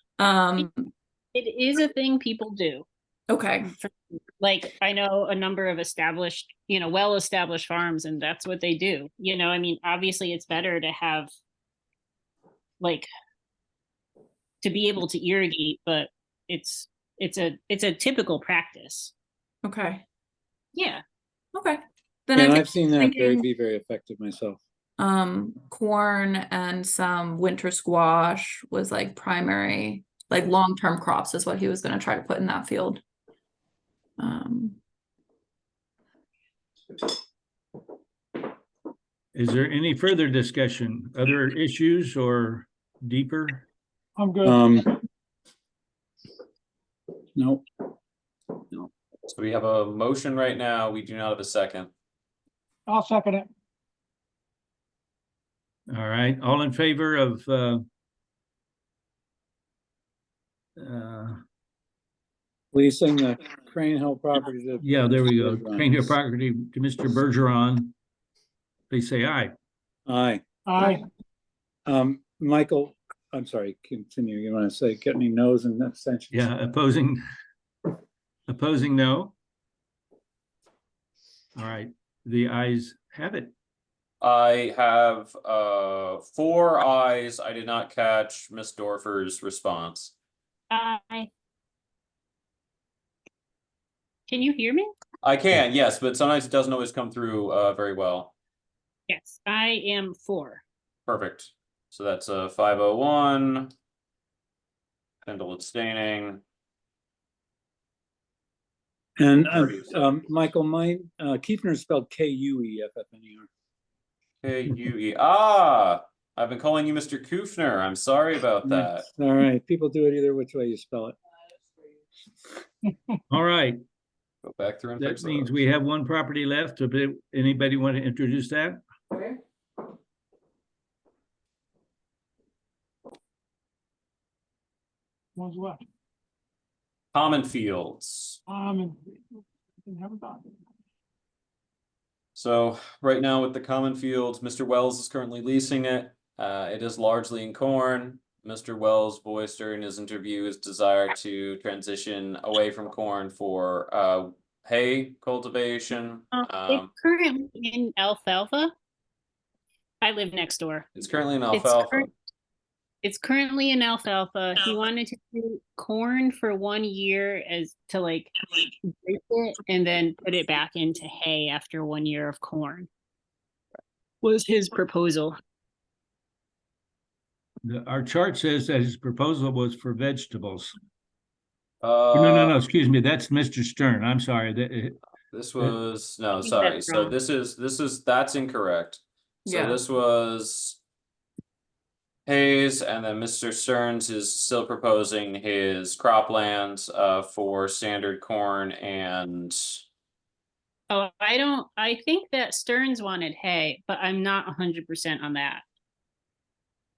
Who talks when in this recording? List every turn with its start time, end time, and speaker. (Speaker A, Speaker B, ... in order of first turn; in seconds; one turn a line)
Speaker A: 0.2-0.9
Speaker B: 1.3-2.9
Speaker A: 3.3-3.7
Speaker B: 3.8-11.3
Speaker B: 12.8-13.1
Speaker B: 14.6-19.1
Speaker A: 19.6-20.0
Speaker B: 20.7-21.0
Speaker A: 21.5-23.4
Speaker C: 22.4-24.6
Speaker A: 25.0-33.0
Speaker A: 34.2-34.8
Speaker D: 39.4-43.7
Speaker E: 44.2-44.6
Speaker C: 44.4-44.9
Speaker C: 47.4-47.6
Speaker F: 49.3-51.9
Speaker E: 52.9-53.5
Speaker D: 55.9-57.9
Speaker D: 60.8-61.4
Speaker C: 62.7-66.0
Speaker D: 64.8-68.0
Speaker D: 68.9-69.5
Speaker C: 70.1-70.9
Speaker E: 70.7-71.0
Speaker C: 71.9-76.5
Speaker D: 76.3-77.2
Speaker D: 78.5-79.3
Speaker D: 81.6-83.5
Speaker F: 84.2-90.2
Speaker B: 90.7-91.3
Speaker B: 94.3-94.9
Speaker F: 95.2-98.3
Speaker B: 99.1-100.6
Speaker F: 101.1-103.7
Speaker F: 105.2-106.4
Speaker C: 109.2-113.5
Speaker F: 109.4-110.0
Speaker F: 114.4-119.1
Speaker C: 118.7-121.2
Speaker D: 123.3-123.8
Speaker F: 124.4-125.6
Speaker D: 125.0-128.8
Speaker E: 135.4-135.8
Speaker F: 137.1-138.4
Speaker E: 138.5-139.0
Speaker E: 139.8-140.5
Speaker F: 142.3-156.9
Speaker B: 156.3-158.7
Speaker B: 160.0-160.9
Speaker F: 160.9-162.1
Speaker B: 161.5-162.1
Speaker B: 163.0-172.9
Speaker B: 174.2-175.4
Speaker D: 177.6-180.7
Speaker F: 181.8-182.6
Speaker D: 182.1-185.0
Speaker F: 185.3-190.8
Speaker B: 186.4-187.1
Speaker A: 189.5-189.8
Speaker F: 192.3-199.8
Speaker B: 200.9-205.6